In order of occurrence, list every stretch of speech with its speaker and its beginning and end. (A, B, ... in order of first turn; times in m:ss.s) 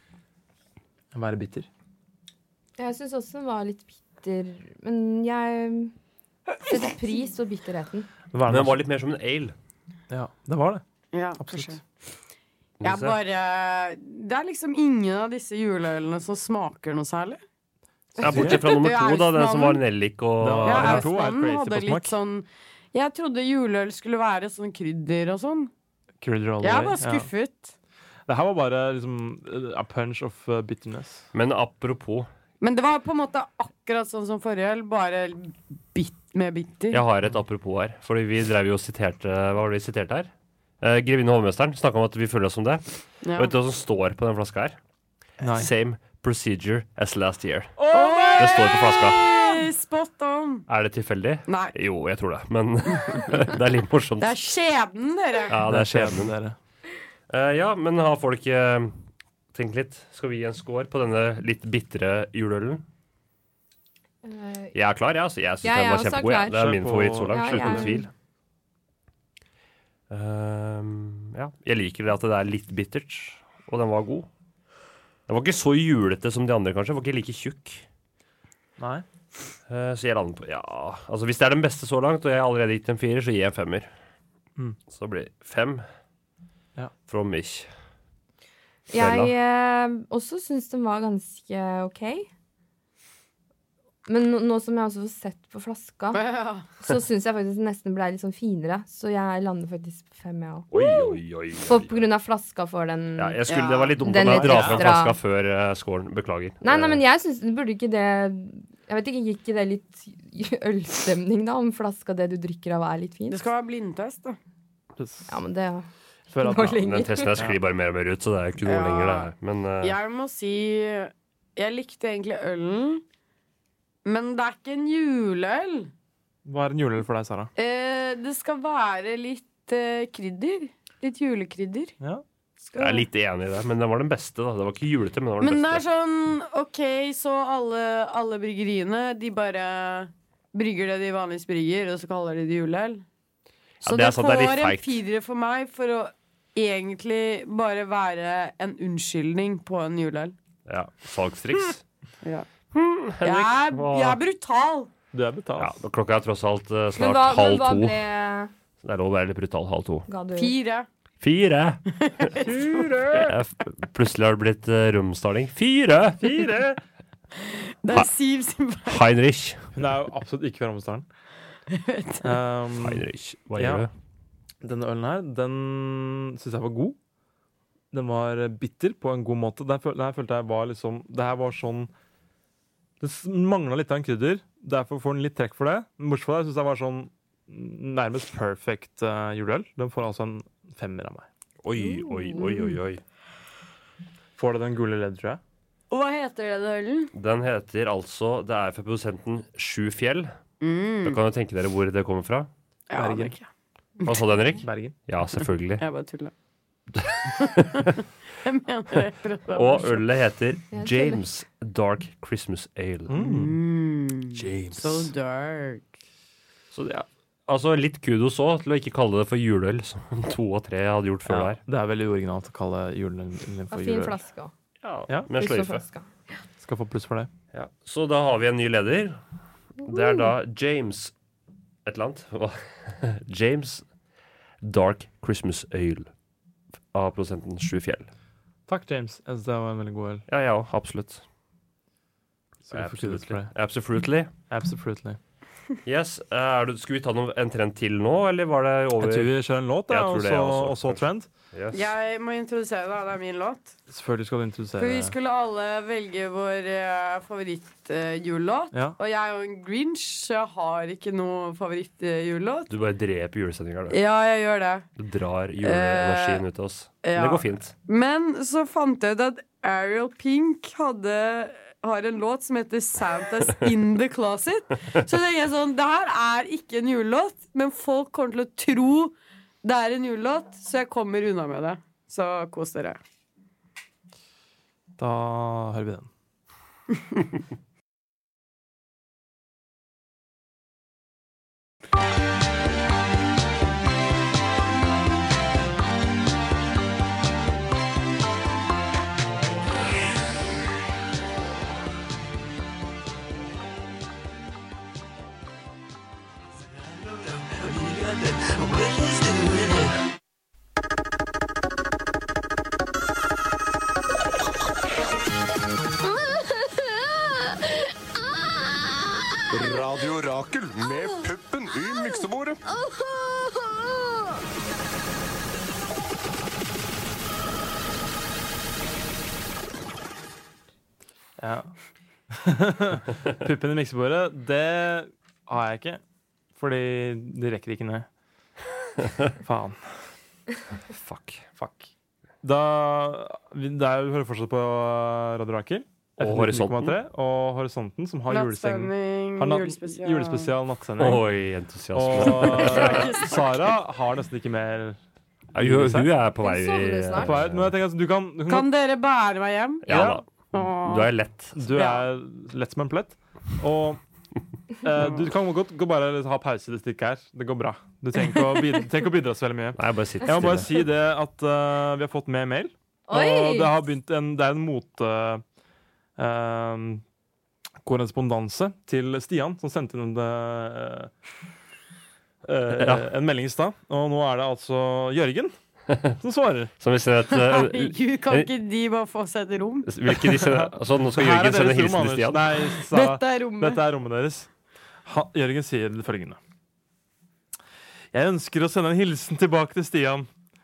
0:01.1-0:01.7 A
0:02.8-0:05.9 B
0:06.6-0:08.1 B
0:08.3-0:08.8 A
0:08.5-0:09.5 C
0:10.1-0:10.8 A
0:11.1-0:11.8 D
0:11.4-0:11.8 A
0:12.8-0:13.2 C
0:12.8-0:17.4 D
0:18.2-0:18.7 A
0:18.2-0:19.8 D
0:18.2-0:21.1 C
0:20.4-0:22.2 A
0:20.7-0:25.7 D
0:26.2-0:27.3 A
0:26.6-0:27.7 D
0:28.3-0:31.2 A
0:31.3-0:32.3 C
0:32.6-0:37.0 D
0:36.9-0:40.3 C
0:40.8-0:42.8 C
0:43.2-0:43.5 D
0:43.4-0:44.8 C
0:45.4-0:45.7 A
0:45.4-0:47.8 C
0:47.8-0:49.4 A
0:47.9-0:50.6 D
0:48.4-0:49.2 C
0:50.7-0:54.4 C
0:51.5-0:51.7 D
0:54.2-0:55.6 D
0:55.5-0:56.3 C
0:55.6-0:56.6 A
0:57.3-0:59.0 C
0:59.5-1:02.8 C
1:04.2-1:04.7 B
1:04.7-1:08.1 C
1:05.6-1:06.7 B
1:06.6-1:08.0 A
1:07.3-1:08.1 B
1:10.1-1:14.3 C
1:15.3-1:17.8 C
1:18.8-1:19.0 A
1:19.7-1:23.9 C
1:24.9-1:25.8 C
1:27.1-1:27.7 C
1:28.9-1:32.3 B
1:28.9-1:29.3 C
1:34.1-1:36.2 B
1:36.1-1:36.7 D
1:36.8-1:43.4 B
1:40.7-1:42.0 C
1:43.2-1:47.0 C
1:43.5-1:44.8 D
1:44.0-1:45.2 B
1:46.6-1:53.4 B
1:53.3-1:54.4 D
1:55.0-1:55.3 A
1:55.3-1:55.9 B
1:56.3-1:56.8 A
1:56.4-1:57.3 B
1:56.8-2:00.0 C
1:58.6-2:03.0 D
2:04.0-2:05.9 D
2:06.4-2:07.5 A
2:07.6-2:12.0 D
2:12.7-2:13.1 B
2:12.8-2:15.8 C
2:15.4-2:23.0 D
2:23.8-2:25.0 C
2:23.8-2:30.4 D
2:30.7-2:31.8 C
2:32.7-2:34.2 C
2:33.2-2:34.9 D
2:35.1-2:35.8 A
2:35.6-2:38.0 C
2:37.0-2:38.5 B
2:38.8-2:40.1 C
2:40.1-2:40.6 B
2:40.4-2:40.9 D
2:41.2-2:42.5 C
2:42.0-2:42.7 D
2:42.4-2:43.3 A
2:43.1-2:46.5 C
2:46.2-2:46.8 A
2:47.4-2:49.0 D
2:48.9-2:49.7 C
2:49.7-2:51.1 A
2:51.7-2:52.4 D
2:52.2-2:53.9 A
2:52.8-2:53.9 C
2:54.6-2:57.0 A
2:57.9-3:01.9 A
3:03.0-3:11.3 A
3:11.6-3:13.0 C
3:11.8-3:12.2 B
3:12.4-3:12.7 D
3:14.4-3:15.4 A
3:15.9-3:17.1 D
3:17.2-3:20.3 C
3:20.6-3:21.2 D
3:21.0-3:22.5 C
3:22.9-3:23.5 D
3:22.9-3:23.4 A
3:24.1-3:25.8 C
3:24.6-3:25.0 A
3:25.8-3:26.3 D
3:27.0-3:28.0 C
3:27.4-3:27.8 D
3:28.4-3:30.0 D
3:29.5-3:33.2 C
3:30.7-3:31.2 B
3:33.1-3:33.6 A
3:33.2-3:35.9 D
3:36.7-3:41.6 C
3:41.3-3:44.2 A
3:43.7-3:44.5 B
3:44.8-3:45.8 C
3:45.3-3:46.1 B
3:46.6-3:47.3 A
3:47.5-3:49.2 C
3:49.8-3:50.3 B
3:49.8-3:51.1 C
3:51.9-3:53.8 C
3:54.6-3:56.1 C
3:56.9-3:58.1 C
3:58.7-4:00.2 A
4:00.3-4:01.2 C
4:02.6-4:03.5 A
4:02.7-4:04.3 C
4:04.5-4:05.2 A
4:05.8-4:09.3 C
4:09.0-4:11.3 A
4:09.9-4:11.0 C
4:11.5-4:11.8 C
4:11.7-4:13.8 D
4:13.9-4:15.2 A
4:14.8-4:22.7 D
4:22.7-4:24.0 C
4:23.9-4:24.9 D
4:25.0-4:27.7 C
4:25.6-4:26.4 D
4:27.0-4:43.0 D
4:45.0-4:46.1 A
5:19.5-5:22.6 E
5:31.4-5:31.7 A
5:32.3-5:36.0 A
5:36.6-5:38.1 A
5:39.4-5:39.9 A
5:40.9-5:41.4 C
5:41.6-5:41.9 A
5:42.4-5:51.3 A
5:46.2-5:47.0 C
5:48.3-5:50.5 D
5:51.0-5:53.1 C
5:51.9-5:55.0 A
5:52.2-5:53.8 D
5:55.5-5:57.7 C
5:55.6-5:56.1 A
5:56.4-5:57.4 B
5:57.1-5:58.7 A
5:58.5-5:59.8 D
5:59.8-6:00.2 C
5:59.9-6:00.2 A
6:00.5-6:01.1 D
6:00.8-6:01.6 C
6:01.6-6:04.0 A
6:01.7-6:02.0 D
6:04.8-6:15.4 A
6:09.8-6:10.7 C
6:13.1-6:13.7 B
6:16.2-6:17.0 A
6:17.8-6:21.1 A
6:22.4-6:25.5 A
6:22.8-6:23.1 C
6:25.9-6:26.2 C
6:26.2-6:26.7 A
6:26.8-6:28.5 C
6:27.3-6:29.9 D
6:29.9-6:32.5 C
6:30.2-6:34.5 A
6:32.9-6:33.8 D
6:35.0-6:36.4 A
6:38.1-6:40.3 A